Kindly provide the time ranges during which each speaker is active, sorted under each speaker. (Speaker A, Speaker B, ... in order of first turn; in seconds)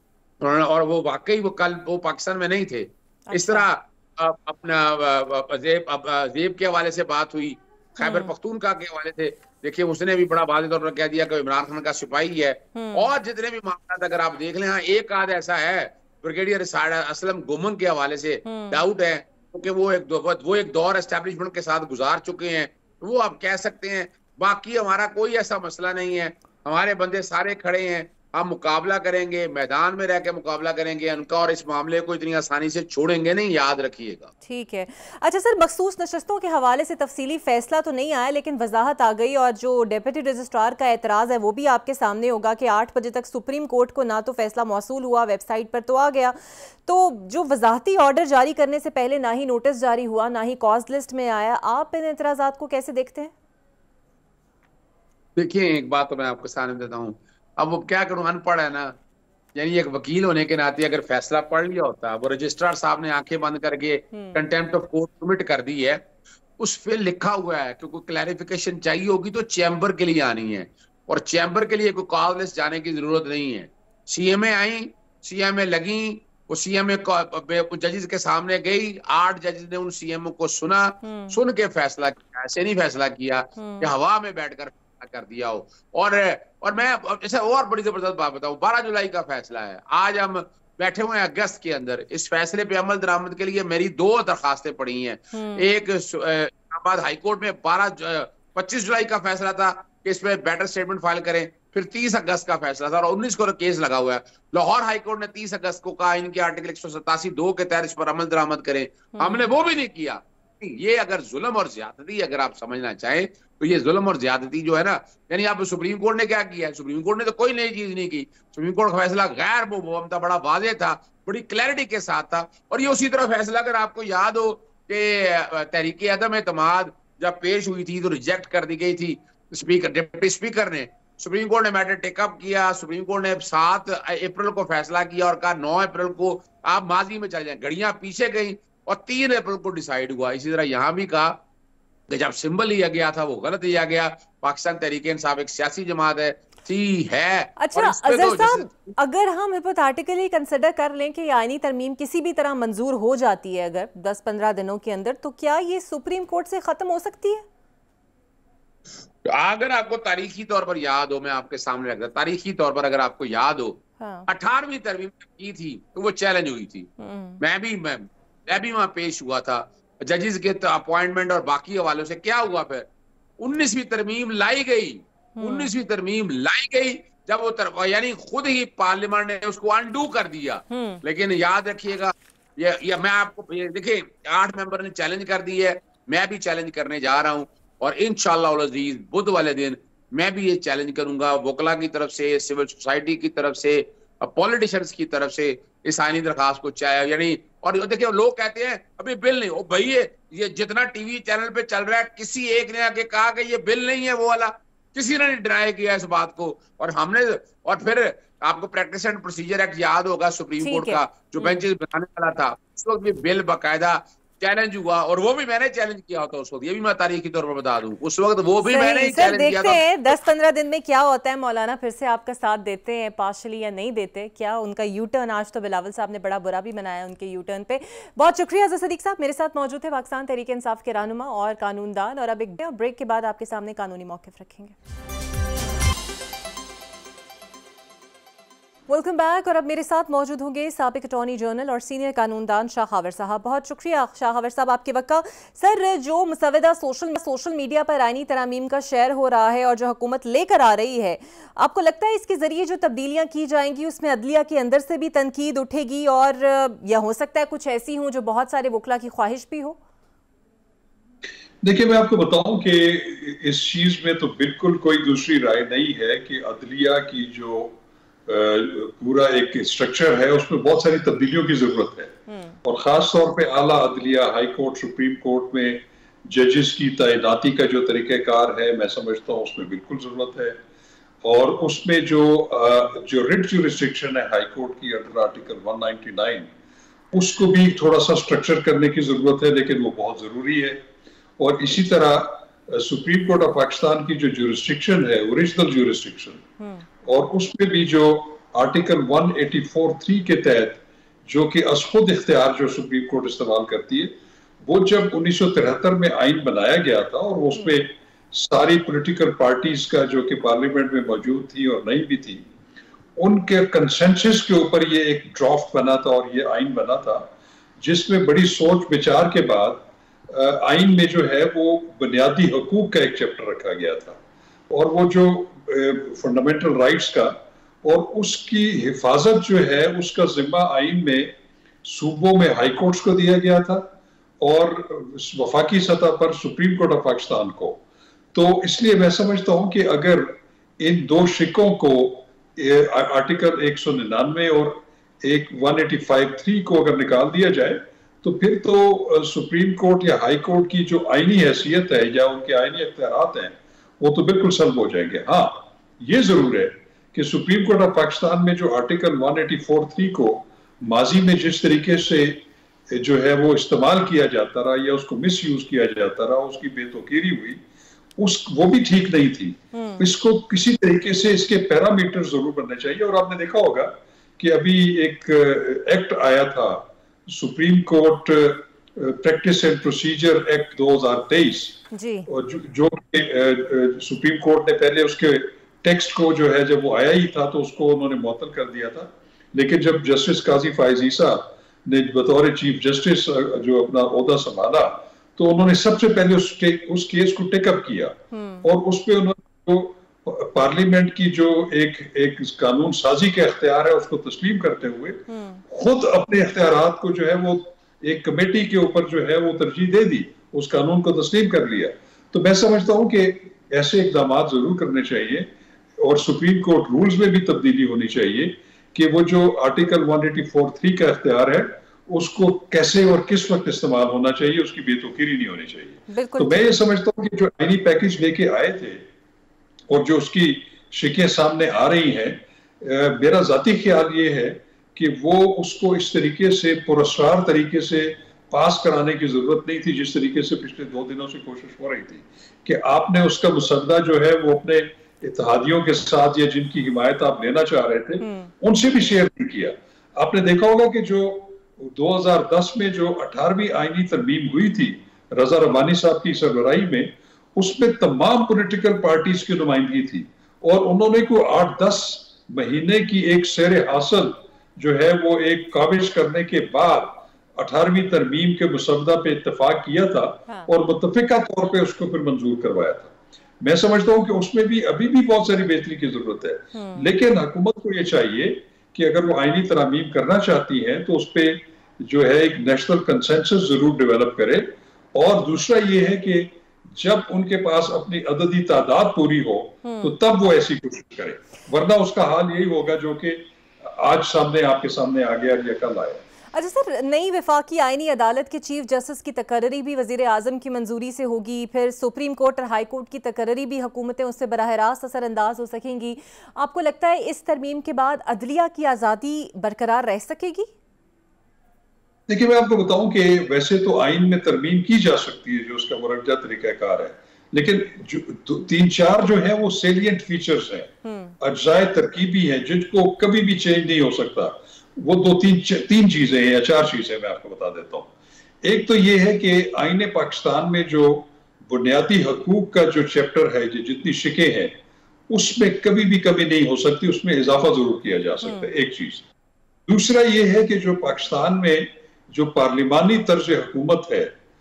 Speaker A: 0.4-34.3, 55.4-59.0, 59.5-66.0, 66.6-141.4, 142.1-148.9, 159.2-172.9, 173.4-219.8
Speaker B: 3.3-3.7, 8.0-8.3, 12.8-13.1, 18.4-18.8, 34.5-53.3, 64.1-64.4, 81.0-81.4, 83.6-83.9, 95.3-95.7, 109.2-109.5, 147.6-157.4, 164.0-164.3, 167.0-167.4, 175.4-175.7, 180.7-181.0, 210.6-211.6, 218.6-234.7, 238.9-259.8, 272.3-272.6, 296.6-296.8, 307.6-307.8, 369.7-370.1, 381.9-382.3, 398.3-398.7, 405.3-405.6, 426.1-426.6, 448.2-448.5, 476.7-477.1, 489.8-490.1, 496.5-510.7, 521.0-521.4, 538.4-538.7
Speaker C: 261.6-267.8, 268.3-280.6, 281.2-286.5, 287.1-290.8, 291.4-296.4, 297.1-304.1, 304.6-312.4, 313.2-317.3, 317.8-324.2, 324.7-331.3, 331.9-333.9, 334.4-337.8, 338.3-367.6, 368.2-429.1, 429.9-496.2, 512.3-528.1, 528.6-534.7, 535.3-539.2, 539.9-544.3